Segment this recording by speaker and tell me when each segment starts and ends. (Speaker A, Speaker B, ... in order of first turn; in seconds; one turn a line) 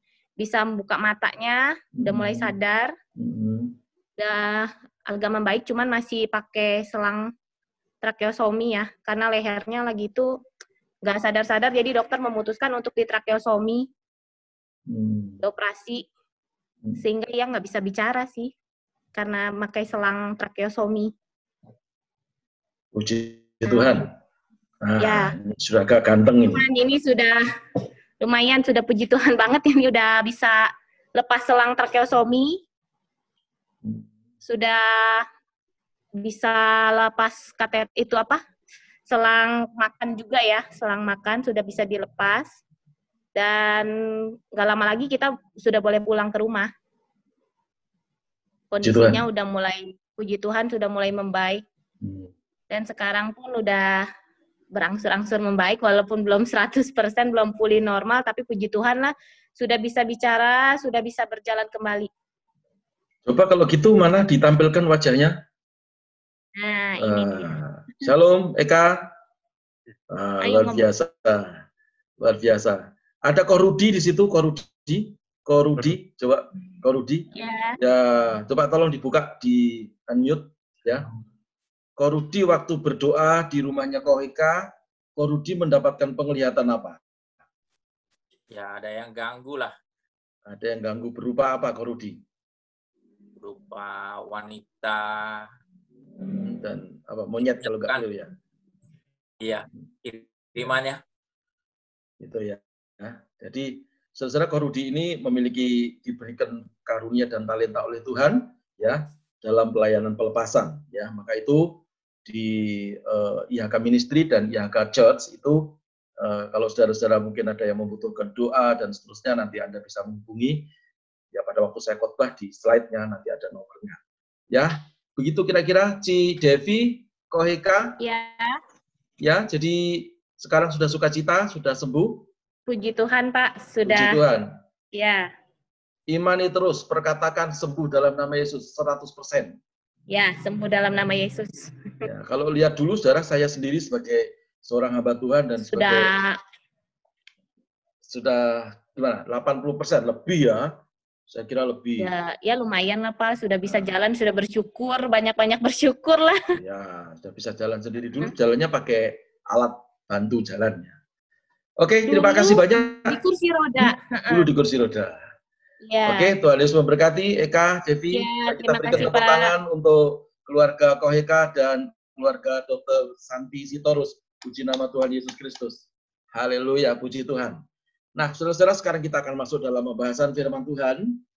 Speaker A: 0.4-2.9
Speaker B: 2.0-2.6
Speaker B: 3.2-3.8
Speaker A: 4.2-7.3
Speaker A: 8.0-10.4
Speaker A: 11.0-13.9
Speaker B: 14.9-15.4
Speaker A: 15.4-16.0
Speaker A: 16.9-18.5
Speaker A: 19.1-21.1
Speaker B: 22.9-24.1
Speaker A: 23.7-24.0
Speaker B: 24.8-26.6
Speaker A: 25.0-25.3
Speaker A: 26.5-27.4
Speaker A: 28.2-32.6
Speaker A: 34.4-35.3
Speaker A: 36.2-38.4
Speaker A: 39.1-42.5
Speaker A: 43.3-46.7
Speaker A: 48.7-51.6
Speaker B: 48.8-49.2
Speaker B: 52.0-52.3
Speaker A: 52.7-54.0
Speaker A: 54.7-62.1
Speaker B: 63.2-65.4
Speaker A: 66.5-68.1
Speaker B: 67.0-69.1
Speaker B: 70.1-71.6
Speaker A: 70.4-70.9
Speaker B: 72.2-81.1
Speaker A: 77.3-77.8
Speaker B: 82.0-87.0
Speaker C: 88.5-89.7
Speaker B: 90.5-92.2
Speaker C: 93.4-95.5
Speaker B: 96.2-98.3
Speaker C: 97.6-98.0
Speaker C: 99.4-101.0
Speaker B: 102.2-120.7
Speaker B: 121.3-124.0
Speaker B: 124.5-128.0
Speaker A: 128.0-128.5
Speaker B: 129.2-132.3
Speaker A: 132.7-134.2
Speaker B: 133.8-134.5
Speaker A: 134.9-135.3
Speaker B: 136.1-139.6
Speaker A: 140.1-142.1
Speaker B: 142.0-146.1
Speaker A: 145.6-146.4
Speaker B: 148.0-150.7
Speaker B: 151.3-152.1
Speaker A: 152.0-156.6
Speaker B: 153.7-153.9
Speaker B: 156.6-160.9
Speaker B: 161.8-163.2
Speaker A: 162.1-164.5
Speaker B: 163.8-165.2
Speaker A: 165.8-166.3
Speaker B: 166.1-177.6
Speaker A: 168.1-169.5
Speaker B: 178.2-181.2